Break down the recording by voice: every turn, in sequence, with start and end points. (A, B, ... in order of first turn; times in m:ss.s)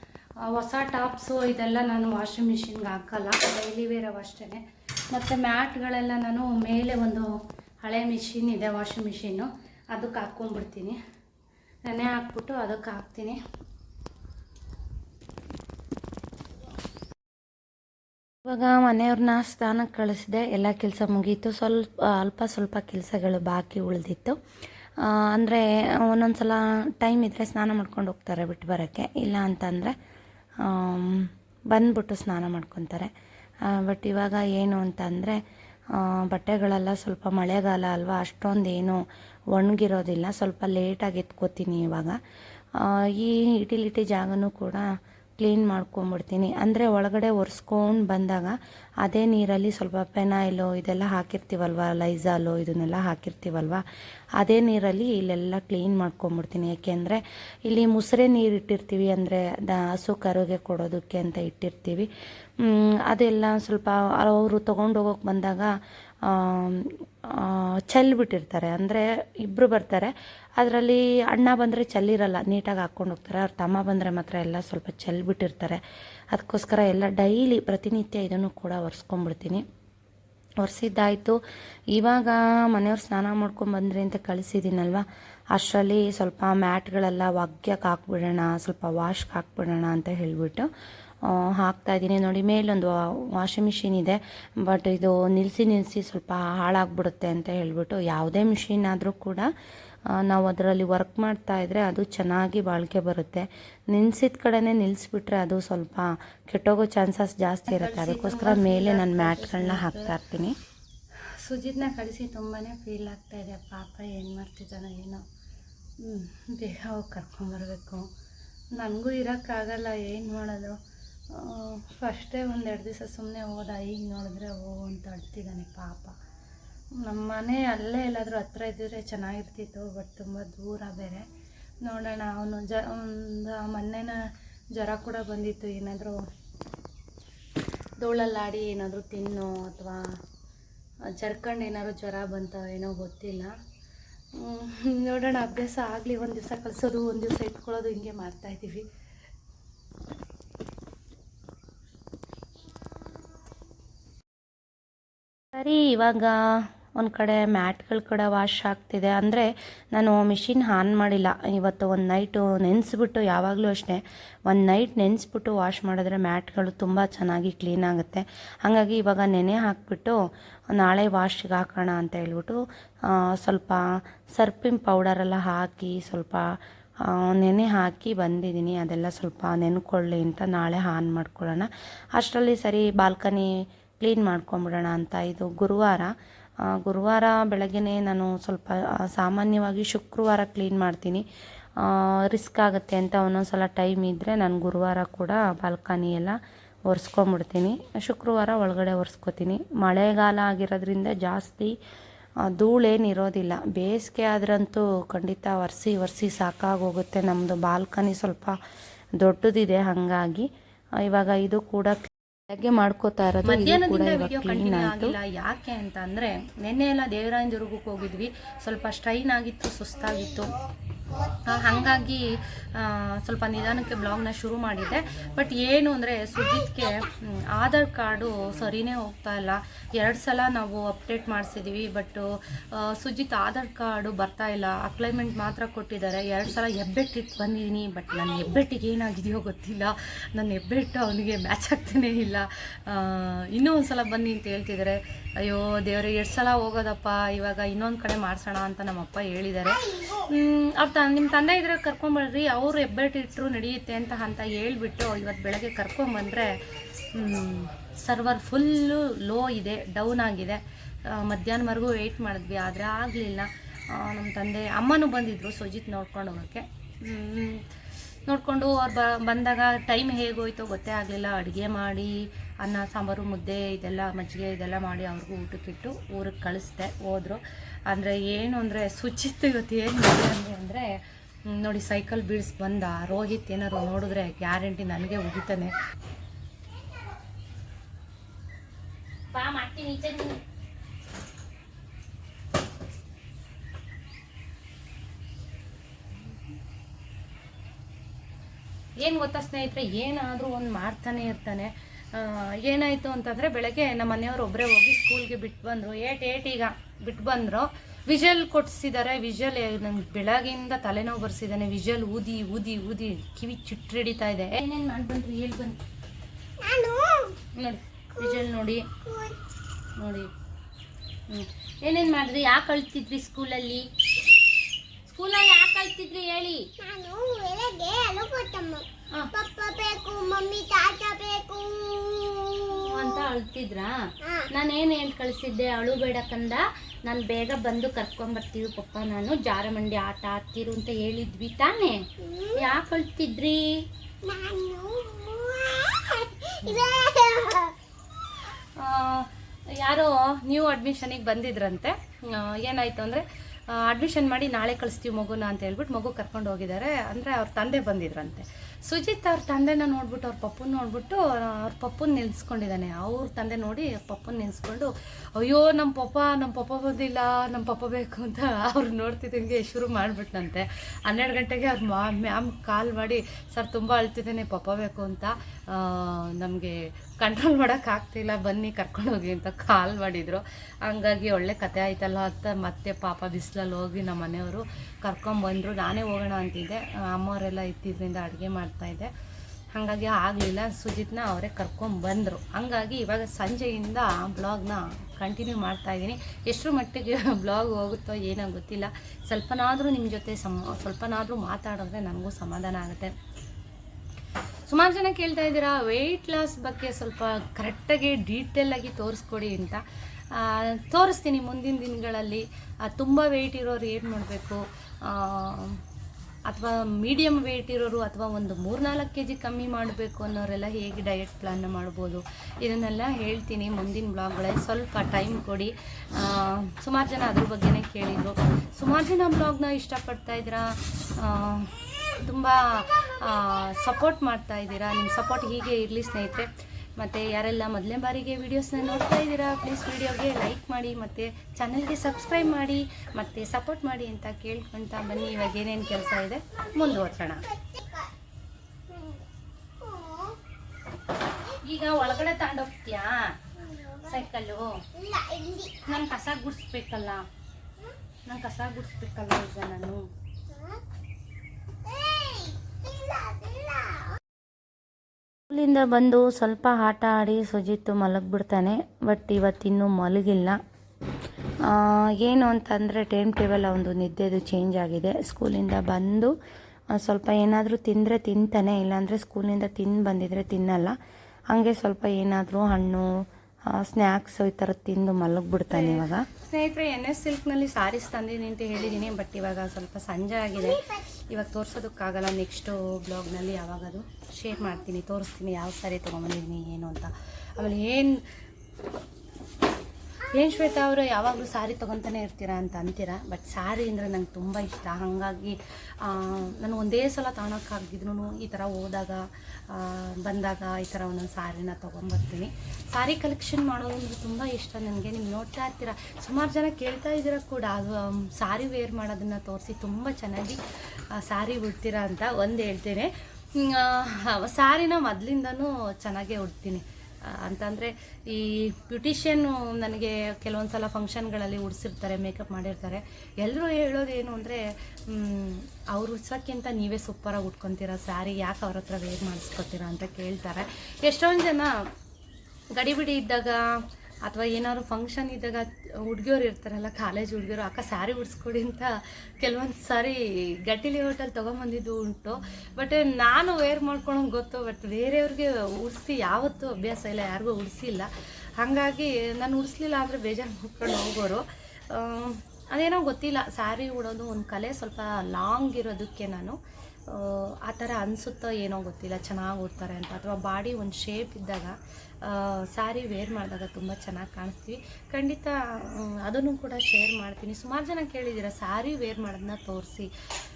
0:00.4-0:11.0 A
0:11.8-0:13.4 A
0:18.5-0:24.4 B
0:25.0-0:30.0 B
0:30.6-0:33.1 B
0:33.7-0:35.4 B
0:35.9-0:39.0 B
0:39.5-0:42.2 B
0:42.8-0:44.9 B
0:45.4-0:53.8 B
0:54.4-1:02.1 B
1:02.6-1:05.7 B
1:06.3-1:15.8 B
1:16.3-1:19.6 B
1:20.6-1:21.4 B
1:21.9-1:30.7 B
1:31.3-1:39.5 B
1:40.2-1:50.6 B
1:47.7-1:50.2 A
1:51.4-1:55.2 A
1:56.0-1:58.1 A
1:58.8-2:00.8 A
2:01.3-2:06.2 A
2:07.0-2:11.3 A
2:11.8-2:16.2 A
2:18.0-2:20.1 A
2:21.1-2:23.5 A
2:24.4-2:28.9 A
2:35.5-2:50.2 B
2:50.7-3:06.1 B
3:06.7-3:11.2 B
3:11.8-3:21.8 B
3:22.5-3:28.6 B
3:29.2-3:30.5 B
3:31.0-3:32.0 B
3:32.5-3:35.2 B
3:33.4-3:40.6 A
3:41.3-4:27.6 A
4:28.3-4:45.7 A
4:49.3-4:50.4 A
4:59.0-5:15.8 A
5:16.7-5:17.3 C
5:17.6-5:19.0 A
5:20.0-5:20.3 A
5:21.3-5:23.9 A
5:25.1-5:26.7 A
5:26.9-5:28.8 C
5:29.2-5:29.4 A
5:29.4-5:32.5 C
5:32.7-5:33.9 A
5:34.5-5:43.8 A
5:44.3-5:46.6 C
5:46.6-5:47.1 A
5:47.1-5:47.7 C
5:48.6-6:29.1 A
6:29.7-6:43.2 A
6:44.7-6:55.8 A
6:56.5-7:27.6 A
7:30.0-7:30.3 C
7:31.6-7:34.8 A
7:35.1-7:35.7 C
7:35.8-7:37.3 A
7:38.3-7:40.0 A
7:42.2-7:42.5 C
7:43.2-7:43.5 C
7:45.5-7:50.6 B
7:51.6-7:56.3 B
7:56.9-8:01.0 B
8:01.5-8:03.1 B
8:03.7-8:06.3 B
8:05.7-8:18.3 A
8:20.3-9:01.8 A
9:02.8-9:03.7 A
9:04.3-9:40.1 A